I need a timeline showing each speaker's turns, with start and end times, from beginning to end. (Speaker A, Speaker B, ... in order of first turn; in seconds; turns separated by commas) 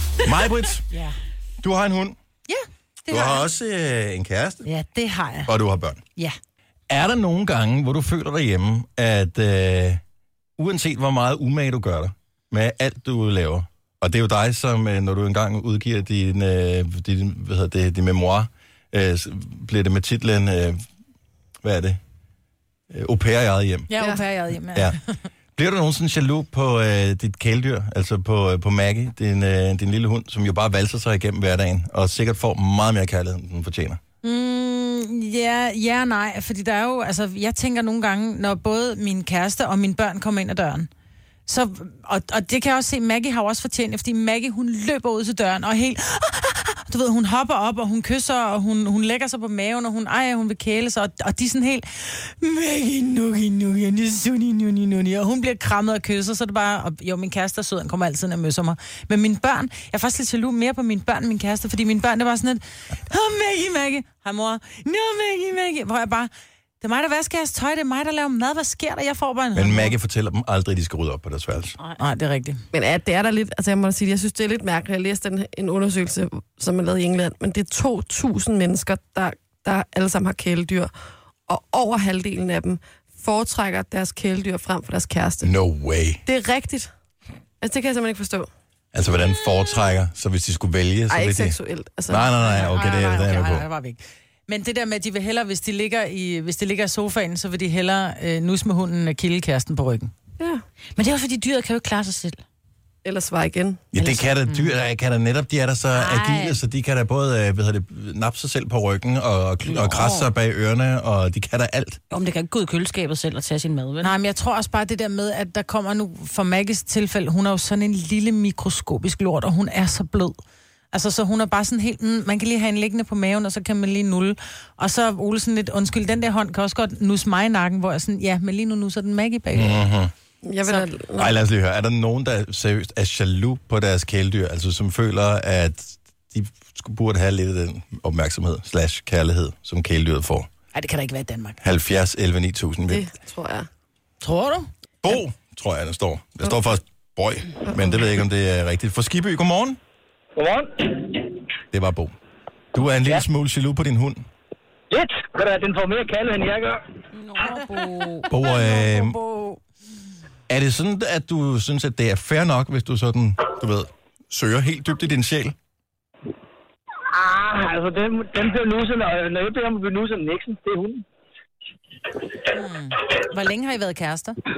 Speaker A: 0.2-0.9, Speaker B: 0.9-1.2, Speaker A: 1.6-2.2, Speaker B: 2.5-3.5, Speaker A: 3.1-4.7, Speaker B: 4.7-5.5, Speaker A: 5.5-6.0, Speaker A: 6.9-10.0, Speaker A: 10.6-20.8, Speaker A: 21.6-22.0, Speaker A: 22.9-23.9, Speaker B: 23.9-24.9, Speaker A: 25.6-34.0, Speaker B: 34.2-40.9, Speaker B: 41.5-69.9, Speaker A: 69.5-71.8, Speaker B: 72.0-72.6, Speaker C: 72.7-80.9, Speaker C: 81.5-85.5, Speaker A: 85.4-86.2, Speaker C: 86.2-86.9, Speaker C: 87.6-88.5, Speaker A: 88.9-93.7, Speaker C: 91.1-92.3, Speaker B: 92.4-100.1, Speaker D: 101.0-102.4, Speaker C: 103.0-103.8, Speaker A: 103.9-112.0, Speaker D: 104.0-104.2, Speaker D: 105.9-106.6, Speaker D: 109.6-110.3, Speaker D: 112.1-114.1, Speaker B: 114.0-120.4, Speaker B: 120.9-129.9, Speaker A: 129.5-130.1, Speaker C: 130.4-131.4, Speaker A: 131.2-140.5, Speaker B: 140.7-141.6, Speaker A: 141.6-143.1, Speaker C: 142.9-143.7, Speaker B: 144.2-144.7, Speaker A: 145.0-149.8, Speaker E: 150.4-151.2, Speaker A: 151.7-152.1, Speaker A: 152.7-154.3, Speaker E: 154.9-156.8, Speaker D: 157.1-158.3, Speaker A: 158.3-159.2, Speaker B: 158.4-159.6, Speaker A: 160.5-165.6, Speaker E: 167.1-171.1, Speaker B: 172.5-174.4